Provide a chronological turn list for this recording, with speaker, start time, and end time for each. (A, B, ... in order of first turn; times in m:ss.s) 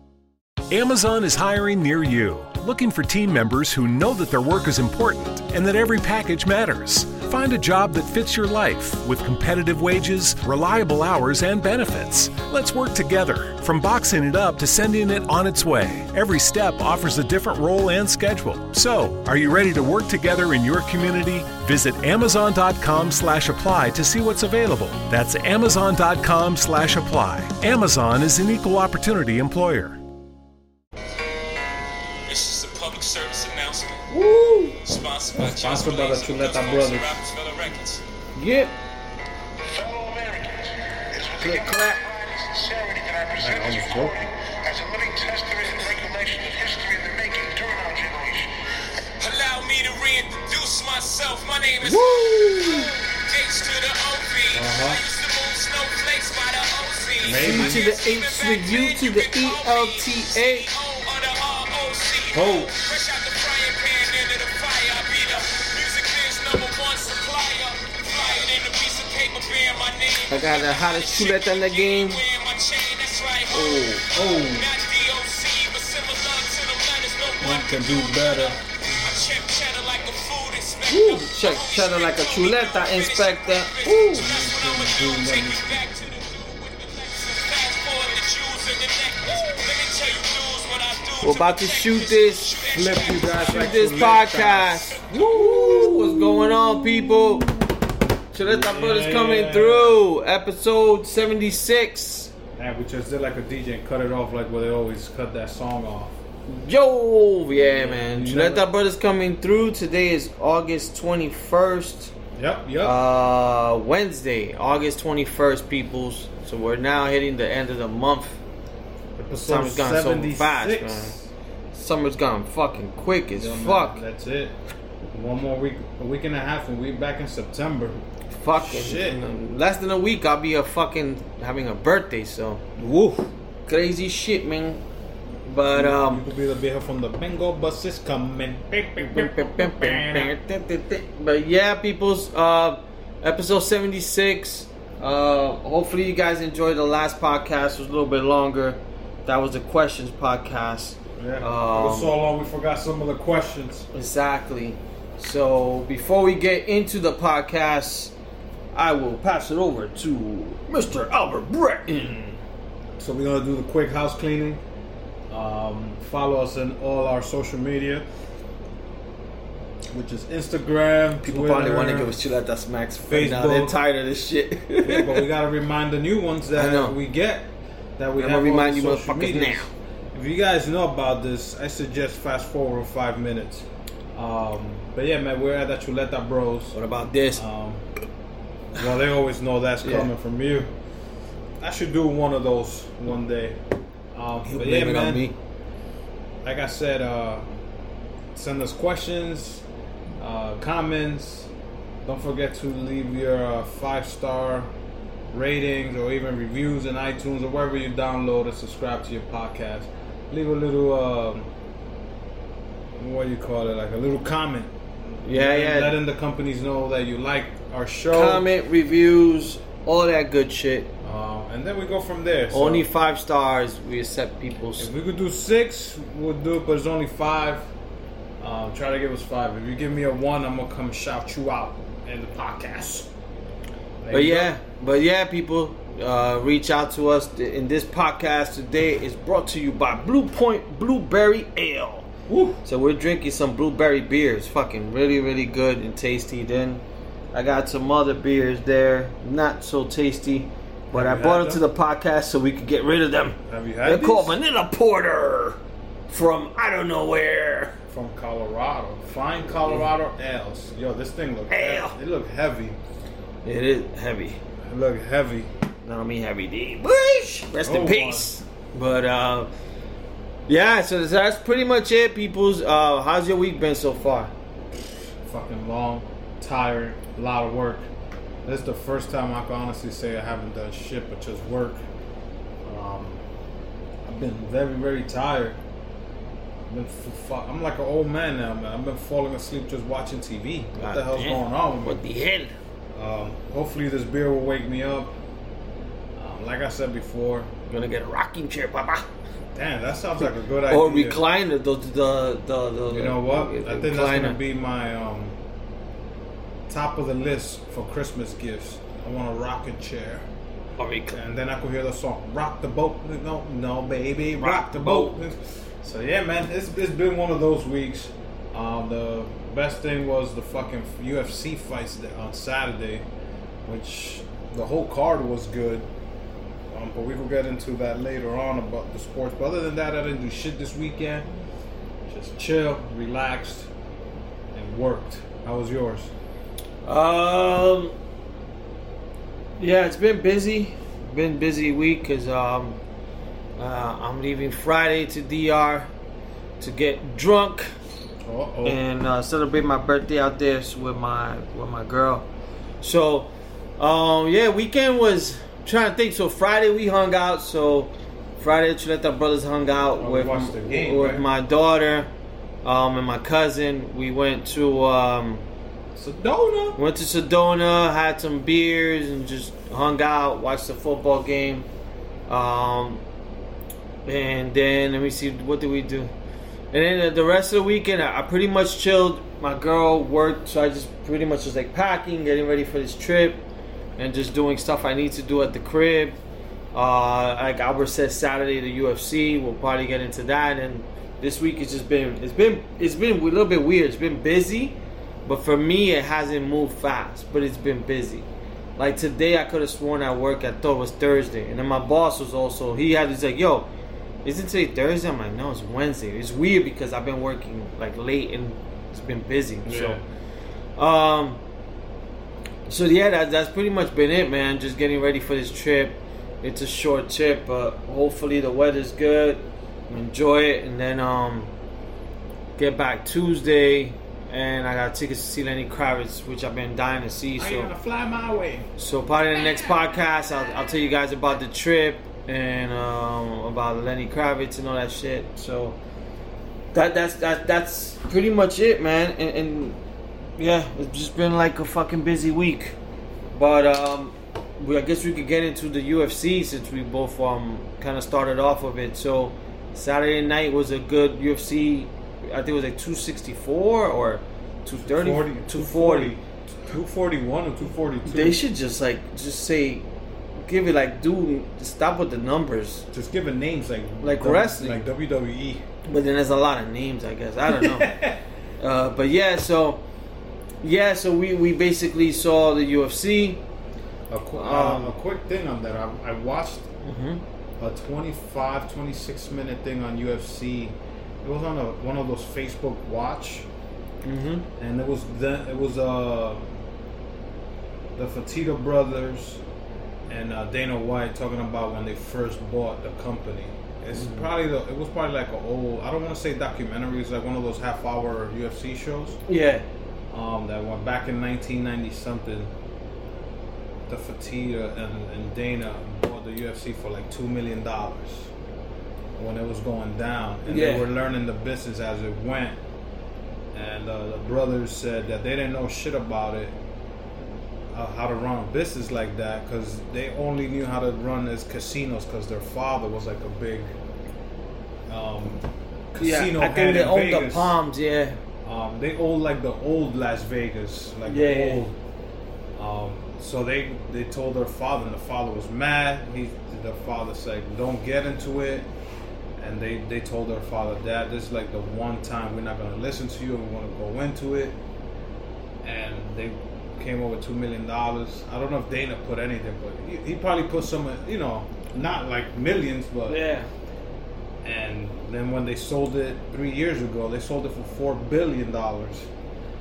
0:00.7-0:30.0 A
0:32.3-0:34.1 B
0:34.1-0:34.8 C
0:34.8-0:38.0 B
0:35.3-0:37.2 D
0:38.4-0:38.7 C
0:39.7-0:48.6 E
0:41.4-0:42.0 C
0:43.4-0:44.3 D
0:49.2-1:34.3 B
0:51.9-0:52.2 D
0:52.1-0:52.8 C
0:54.5-0:55.0 D
0:57.2-0:57.8 D
0:57.3-1:00.7 C
1:02.3-1:02.7 D
1:10.3-1:12.2 C
1:13.5-1:14.0 C
1:14.1-1:14.7 D
1:17.4-1:18.6 D
1:20.9-1:24.2 C
1:23.8-1:25.8 D
1:31.2-1:32.5 C
1:32.7-1:37.7 D
1:33.4-1:37.5 C
1:38.3-1:42.3 C
1:38.4-1:40.0 D
1:42.5-1:46.2 D
1:46.5-1:52.1 C
1:47.5-1:48.6 D
1:52.4-1:53.0 D
1:52.8-1:58.4 C
1:59.2-2:01.3 D
1:59.4-2:01.2 C
2:01.7-2:04.0 C
2:03.4-2:04.5 D
2:05.1-2:08.0 D
2:08.3-2:12.6 C
2:08.5-2:09.2 D
2:12.8-2:13.3 D
2:13.7-2:14.8 C
2:15.4-2:16.2 C
2:15.7-2:20.3 D
2:19.0-2:32.1 C
2:31.2-2:33.9 D
2:33.9-2:38.1 C
2:38.7-2:42.2 C
2:41.8-2:42.4 D
2:43.0-2:44.6 D
2:45.3-2:48.1 D
2:49.9-2:52.1 D
2:51.2-2:55.2 C
2:53.0-2:53.8 D
2:54.8-3:06.8 D
2:56.6-2:56.9 C
2:58.2-2:59.7 C
3:06.7-3:07.4 C
3:07.3-3:07.8 D
3:08.8-3:10.7 D
3:09.8-3:10.1 C
3:11.6-3:13.6 D
3:14.1-3:15.3 D
3:14.5-3:15.4 C
3:16.4-3:17.5 D
3:18.3-3:19.6 D
3:20.2-3:21.5 D
3:22.0-3:24.7 D
3:25.3-3:31.5 D
3:33.0-3:38.4 D
3:35.2-3:36.0 C
3:38.1-3:40.9 C
3:41.0-3:42.9 D
3:42.5-3:44.9 C
3:44.8-3:47.7 D
3:48.4-3:53.1 D
3:54.0-3:54.5 D
3:54.1-4:02.1 C
4:02.3-4:02.6 D
4:02.6-4:17.8 C
4:10.9-4:11.6 D
4:13.4-4:14.4 D
4:17.9-4:22.8 D
4:19.6-4:19.9 C
4:21.5-4:22.0 C
4:23.4-4:24.4 C
4:24.6-4:25.5 D
4:25.8-4:29.5 C
4:27.6-4:28.3 D
4:30.5-4:34.3 C
4:34.8-4:37.9 D
4:38.4-4:41.8 D
4:42.6-4:43.2 D
4:44.0-4:45.6 D
4:46.7-4:52.0 D
4:50.8-4:52.5 C
4:52.9-4:55.2 D
4:56.2-4:57.5 D
4:57.7-4:59.1 C
4:59.5-5:01.2 D
5:00.7-5:04.4 C
5:02.9-5:05.4 D
5:06.7-5:10.3 D
5:10.8-5:11.2 C
5:11.1-5:23.0 D
5:14.4-5:15.1 C
5:23.6-5:25.9 D
5:26.7-5:31.3 D
5:32.1-5:33.7 D
5:34.5-5:36.1 D
5:36.8-5:37.9 C
5:39.6-5:42.8 C
5:43.6-5:45.9 C
5:46.6-5:47.7 C
5:48.2-5:48.8 D
5:48.6-5:52.2 C
5:52.8-6:02.1 C
6:00.0-6:01.2 D
6:02.6-6:05.4 C
6:05.9-6:06.8 D
6:06.8-6:11.7 C
6:12.3-6:13.0 C
6:14.0-6:16.1 C
6:16.7-6:23.4 C
6:24.0-6:26.2 C
6:26.7-6:43.7 C
6:44.2-6:50.0 C
6:49.6-6:50.0 D
6:50.8-6:51.4 C
6:52.7-7:01.5 C
7:02.6-7:07.7 C
7:07.4-7:08.7 D
7:08.8-7:15.8 C
7:09.3-7:09.8 D
7:16.7-7:19.8 C
7:20.4-7:22.7 C
7:23.3-7:36.1 C
7:34.8-7:38.4 D
7:38.0-7:39.8 C
7:40.4-7:42.8 C
7:42.9-7:45.6 D
7:44.0-7:44.8 C
7:45.8-7:47.9 C
7:47.5-7:48.2 D
7:48.6-7:49.8 C
7:50.6-7:53.4 C
7:54.1-7:56.7 D
7:54.3-7:55.0 C
7:56.8-7:57.2 C
7:57.6-8:03.5 D
8:04.0-8:04.4 C
8:04.6-8:06.5 D
8:08.0-8:09.4 D
8:10.1-8:19.2 D
8:14.0-8:14.2 C
8:19.3-8:19.6 C
8:20.1-8:22.5 D
8:23.9-8:28.3 D
8:29.2-8:32.6 D
8:30.5-8:30.9 C
8:33.5-8:36.6 D
8:37.7-8:43.7 D
8:44.9-8:47.6 D
8:46.0-8:48.2 C
8:48.4-8:51.8 D
8:51.0-8:51.6 C
8:52.6-8:58.7 D
8:59.4-9:04.6 D
9:05.6-9:13.2 D
9:13.1-9:13.5 C
9:14.4-9:19.1 D